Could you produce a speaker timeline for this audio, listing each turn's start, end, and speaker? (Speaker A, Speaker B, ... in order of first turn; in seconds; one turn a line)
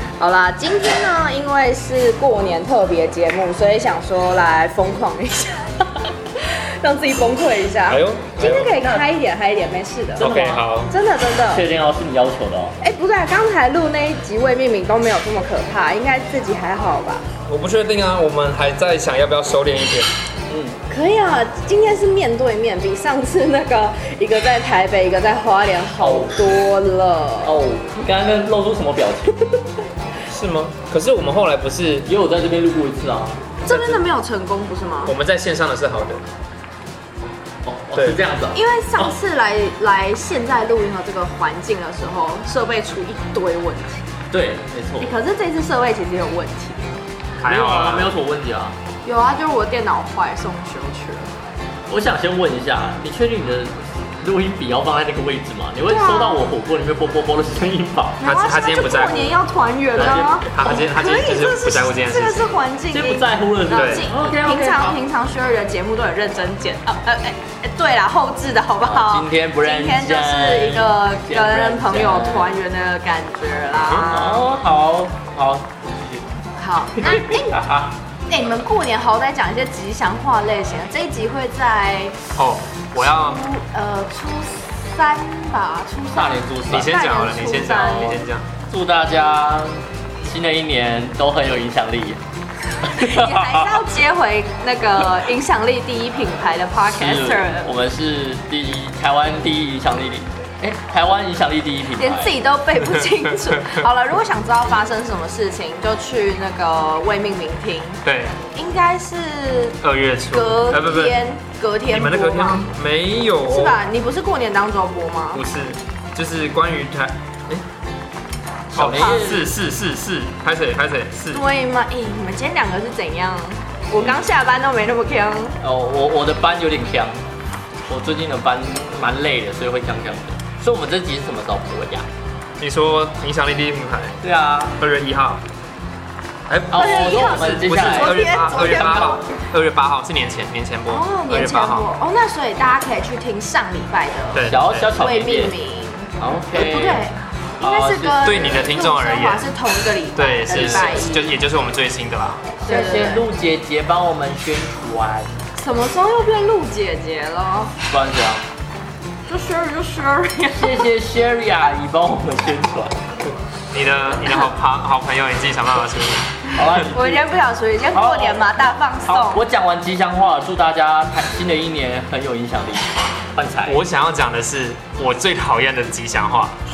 Speaker A: 0.2-11.6
Speaker B: 7.9-8.8
Speaker C: 8.7-9.1
Speaker C: 10.2-10.7
Speaker B: 10.2-10.9
Speaker C: 11.5-12.8
Speaker A: 12.8-17.2
Speaker B: 17.5-20.1
Speaker C: 20.5-20.8
Speaker A: 20.9-27.6
Speaker C: 26.0-26.6
Speaker C: 27.4-29.7
Speaker B: 30.3-32.1
Speaker C: 32.1-33.4
Speaker A: 33.7-35.1
Speaker B: 33.7-34.0
Speaker B: 35.0-36.2
Speaker C: 37.6-39.1
Speaker B: 37.9-38.2
Speaker A: 38.5-44.1
Speaker C: 44.3-45.1
Speaker A: 45.0-46.9
Speaker B: 47.4-48.1
Speaker C: 47.4-48.8
Speaker A: 49.0-51.3
Speaker C: 51.9-58.2
Speaker A: 55.9-56.4
Speaker A: 58.2-74.5
Speaker B: 58.2-59.4
Speaker C: 60.0-60.8
Speaker B: 60.0-62.5
Speaker C: 62.9-65.0
Speaker B: 63.7-64.1
Speaker C: 68.8-72.5
Speaker B: 73.8-74.1
Speaker C: 74.1-76.3
Speaker A: 76.6-77.6
Speaker C: 77.0-78.0
Speaker A: 78.3-82.2
Speaker B: 82.4-83.4
Speaker A: 83.0-88.2
Speaker C: 86.1-87.0
Speaker B: 86.7-88.5
Speaker C: 88.7-92.2
Speaker C: 92.8-93.8
Speaker A: 92.8-97.7
Speaker C: 96.8-102.4
Speaker A: 102.0-108.0
Speaker B: 102.8-103.8
Speaker B: 108.0-108.4
Speaker A: 108.5-109.8
Speaker B: 109.8-111.2
Speaker A: 110.3-112.7
Speaker B: 111.9-113.8
Speaker A: 113.5-115.4
Speaker B: 115.3-117.6
Speaker C: 118.7-119.5
Speaker B: 118.8-121.5
Speaker A: 119.0-119.3
Speaker A: 121.3-125.6
Speaker C: 125.6-127.2
Speaker C: 127.9-132.1
Speaker B: 132.6-134.2
Speaker C: 134.2-134.8
Speaker B: 134.8-135.4
Speaker B: 136.5-141.9
Speaker C: 136.7-139.2
Speaker A: 136.7-139.2
Speaker A: 140.9-151.3
Speaker B: 144.3-144.9
Speaker C: 144.4-145.5
Speaker C: 146.2-147.1
Speaker C: 147.6-148.6
Speaker B: 148.2-149.4
Speaker B: 150.2-152.5
Speaker A: 152.6-153.2
Speaker C: 152.7-155.4
Speaker A: 155.6-157.7
Speaker C: 157.9-158.5
Speaker A: 159.3-160.9
Speaker C: 160.6-163.0
Speaker B: 163.7-166.4
Speaker C: 166.5-167.4
Speaker A: 166.8-169.4
Speaker C: 167.9-173.8
Speaker B: 173.7-176.6